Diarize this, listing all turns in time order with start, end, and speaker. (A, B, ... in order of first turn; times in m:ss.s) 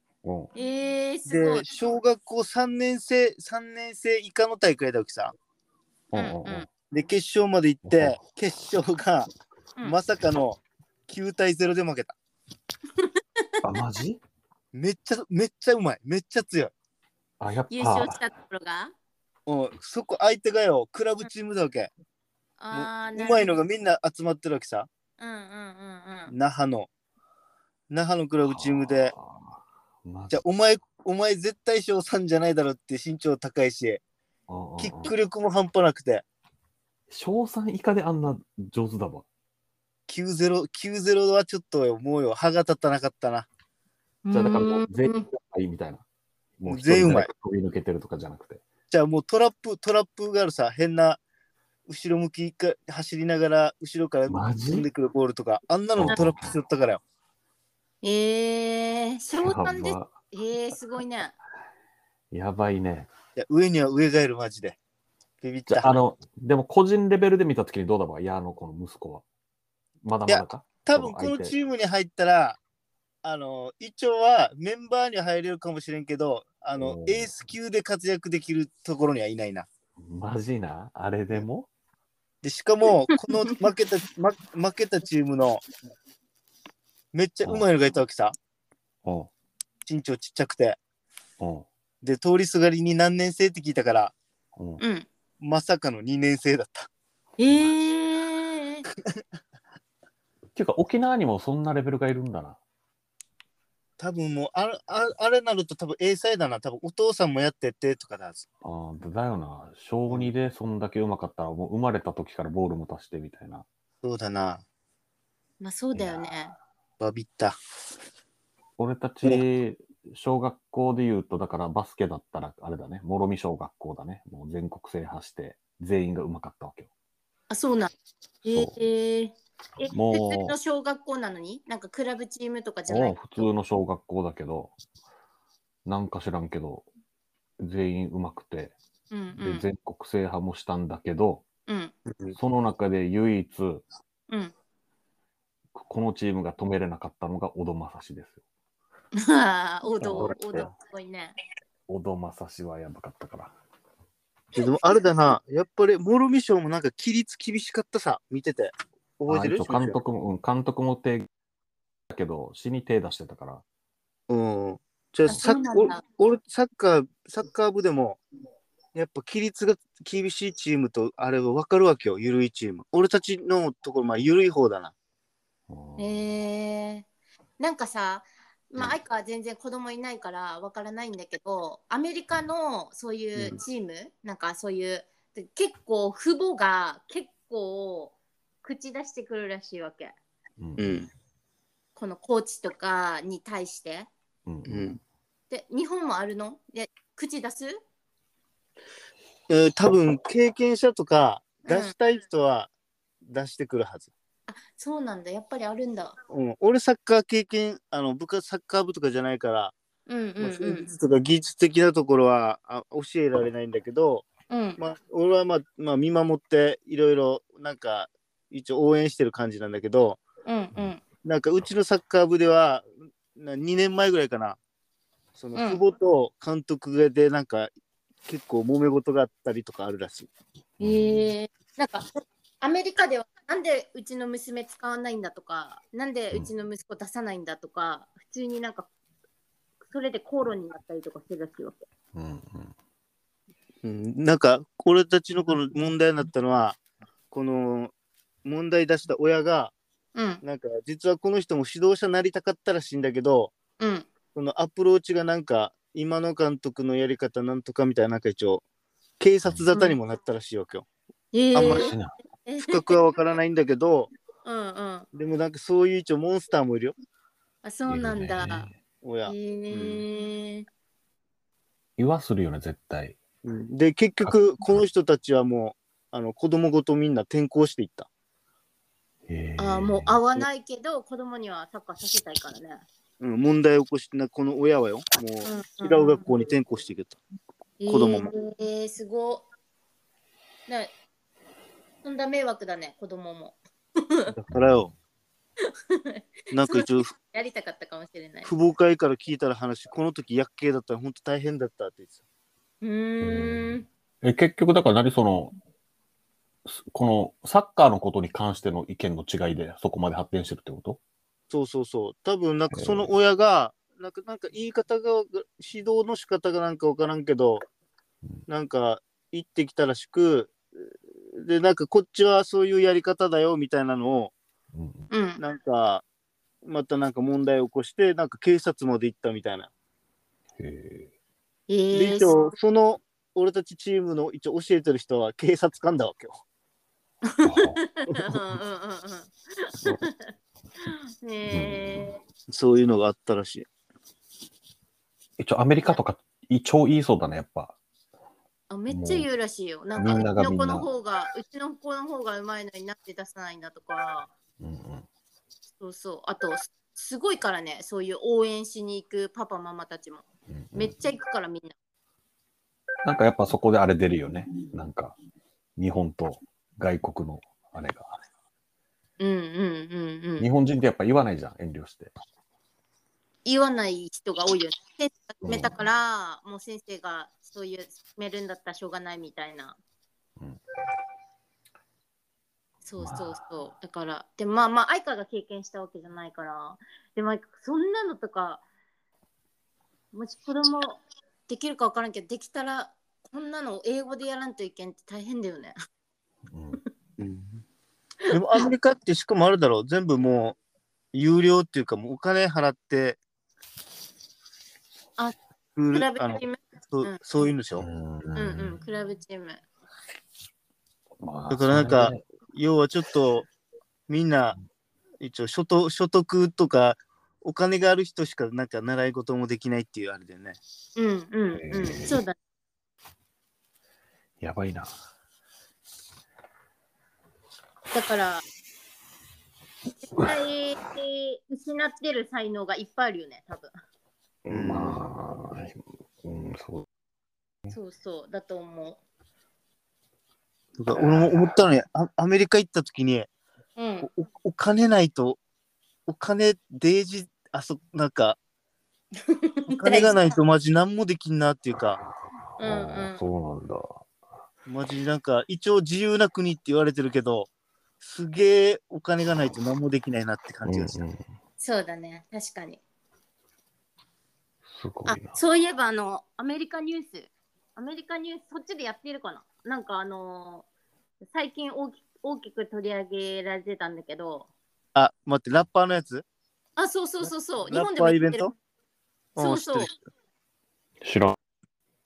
0:00.2-0:00.5 A
0:00.5-0:01.6 B
0:01.2-0:05.3 C
0:06.1-0:06.7 A
0:06.1-0:06.7 B
0:06.9-0:09.3 C
0:07.8-0:08.2 A
0:09.8-0:12.1 C
0:13.6-0:14.2 A
0:14.7-0:16.7 C
0:17.4-0:18.2 A
0:17.7-0:18.9 B
0:19.5-0:21.9 C
0:22.6-0:23.5 B
0:22.7-0:24.9 C
0:25.2-0:26.3 B
0:26.3-0:26.9 C
0:27.9-0:29.1 C
0:28.4-0:30.4 A
0:30.3-0:34.0 C
0:34.5-0:35.1 A
0:34.8-0:36.2 C
0:37.1-0:39.2 A
0:40.1-0:43.5 C
0:44.2-0:45.3 B
0:44.3-0:46.0 A
0:46.6-0:48.6 A
0:46.6-0:47.3 C
0:48.9-0:51.2 C
0:51.9-0:57.0 C
0:54.3-0:54.9 A
0:56.0-0:56.5 A
0:58.0-1:01.4 B
0:59.4-1:00.1 A
1:02.3-1:03.1 A
1:03.4-1:04.8 C
1:05.4-1:06.0 C
1:05.7-1:09.2 A
1:10.0-1:11.5 A
1:10.3-1:12.6 C
1:13.2-1:19.7 C
1:16.8-1:17.3 A
1:20.0-1:21.7 A
1:22.4-1:25.6 C
1:27.1-1:28.4 C
1:29.0-1:29.3 A
1:29.8-1:30.8 C
1:31.4-1:31.7 A
1:32.0-1:34.1 C
1:34.6-1:34.8 A
1:34.8-1:35.1 B
1:35.4-1:36.9 C
1:37.4-1:38.8 B
1:40.5-1:42.6 A
1:44.0-1:48.5 C
1:48.6-1:53.6 A
1:54.0-1:54.6 C
1:55.6-1:56.5 B
1:55.9-1:56.2 A
1:57.0-1:57.6 C
1:58.8-2:06.9 A
2:07.5-2:07.9 B
2:08.4-2:13.5 B
2:08.5-2:08.8 A
2:09.9-2:10.6 A
2:12.9-2:14.7 A
2:15.8-2:16.9 A
2:17.6-2:18.8 A
2:19.1-2:19.7 B
2:19.4-2:21.4 A
2:21.7-2:21.9 B
2:22.4-2:23.8 A
2:25.7-2:28.4 A
2:29.2-2:31.3 B
2:30.0-2:30.7 A
2:31.9-2:33.5 A
2:34.5-2:40.0 C
2:34.6-2:35.0 B
2:39.3-2:41.3 A
2:42.1-2:43.6 A
2:44.3-2:48.2 C
2:45.3-2:46.0 B
2:48.9-2:54.9 C
2:55.7-2:56.2 A
2:56.0-2:57.0 B
2:57.6-3:10.1 B
3:10.6-3:10.9 A
3:10.8-3:11.1 C
3:12.0-3:14.1 B
3:14.4-3:14.9 A
3:14.6-3:15.0 C
3:15.5-3:17.8 B
3:19.5-3:22.7 C
3:21.7-3:21.9 B
3:23.2-3:24.1 C
3:24.5-3:26.2 B
3:26.3-3:29.7 C
3:30.1-3:30.9 B
3:30.4-3:40.2 C
3:34.5-3:34.8 B
3:40.4-3:41.0 B
3:41.2-3:44.6 C
3:45.4-3:47.7 C
3:45.6-3:45.8 B
3:48.2-3:50.3 C
3:50.8-3:51.3 A
3:50.8-3:52.1 B
3:52.6-3:58.9 B
3:59.8-4:01.8 B
4:02.1-4:02.7 A
4:03.8-4:06.8 C
4:07.3-4:07.9 C
4:08.4-4:09.7 C
4:10.2-4:10.4 B
4:10.4-4:13.5 C
4:13.8-4:14.1 B
4:14.3-4:18.6 C
4:19.2-4:20.9 C
4:21.3-4:22.9 B
4:21.5-4:21.9 C
4:21.6-4:22.1 A
4:22.6-4:24.1 C
4:24.4-4:25.1 B
4:25.1-4:26.9 C
4:27.6-4:28.7 B
4:27.9-4:28.7 A
4:29.0-4:30.0 C
4:29.2-4:30.7 B
4:32.0-4:33.2 A
4:33.4-4:38.1 C
4:34.2-4:34.8 A
4:39.3-4:40.2 A
4:39.6-4:42.8 B
4:43.2-4:47.2 C
4:45.4-4:46.2 B
4:47.8-4:49.4 B
4:47.9-4:48.3 C
4:52.0-4:54.3 B
4:54.3-4:54.9 C
4:54.5-4:54.9 A
4:55.6-4:58.5 B
4:56.5-4:57.1 C
4:58.4-5:02.1 C
5:02.8-5:03.9 B
5:03.2-5:05.5 A
5:06.7-5:11.0 A
5:11.5-5:17.6 C
5:12.7-5:13.1 A
5:18.5-5:20.6 C
5:21.3-5:24.3 C
5:24.7-5:25.1 A
5:25.1-5:25.4 B
5:25.4-5:26.0 C
5:26.6-5:29.7 C
5:30.6-5:31.1 A
5:31.7-5:32.5 B
5:31.9-5:36.4 C
5:37.2-5:40.2 B
5:37.4-5:37.8 A
5:40.8-5:42.2 B
5:41.5-5:42.2 A
5:42.5-5:43.7 C
5:45.4-5:47.8 A
5:48.7-5:54.3 B
5:48.9-5:49.3 A
5:50.0-5:50.8 A
5:54.6-5:55.0 A
5:55.8-6:01.7 B
6:00.5-6:00.9 A
6:03.0-6:05.2 A
6:05.8-6:08.2 A
6:09.2-6:10.5 B
6:10.4-6:12.1 A
6:13.4-6:19.8 B
6:15.4-6:15.8 A
6:22.8-6:28.6 B
6:23.0-6:23.3 A
6:30.1-6:35.7 B
6:36.5-6:36.8 A
6:37.2-6:37.6 C
6:38.3-6:38.6 B
6:38.3-6:40.6 C
6:41.1-6:43.2 C
6:45.8-6:47.8 C
6:45.9-6:47.2 B
6:47.8-6:48.8 A
6:48.3-6:49.6 B
6:51.2-6:52.3 A
6:51.5-6:53.5 C
6:54.1-6:54.5 C
6:55.2-7:00.6 C
7:01.0-7:02.3 B
7:01.6-7:02.2 A
7:04.4-7:04.9 A
7:07.9-7:08.4 B
7:10.2-7:13.7 B
7:14.4-7:16.8 A
7:14.5-7:15.0 C
7:17.7-7:19.0 B
7:20.8-7:23.3 C
7:21.0-7:21.5 A
7:23.8-7:24.1 B
7:24.0-7:25.4 C
7:26.0-7:28.4 C
7:29.3-7:30.4 B
7:29.7-7:32.0 C
7:31.9-7:34.0 A
7:32.6-7:33.2 B
7:34.7-7:37.5 C
7:38.0-7:41.0 C
7:40.6-7:41.2 A
7:41.6-7:42.8 B
7:44.7-7:45.4 A
7:45.0-7:50.6 B
7:51.2-7:54.5 B
7:54.9-7:56.2 C
7:56.8-7:58.5 B
7:57.7-7:58.5 C
7:59.3-7:59.9 C
7:59.4-7:59.9 B
8:01.0-8:01.4 A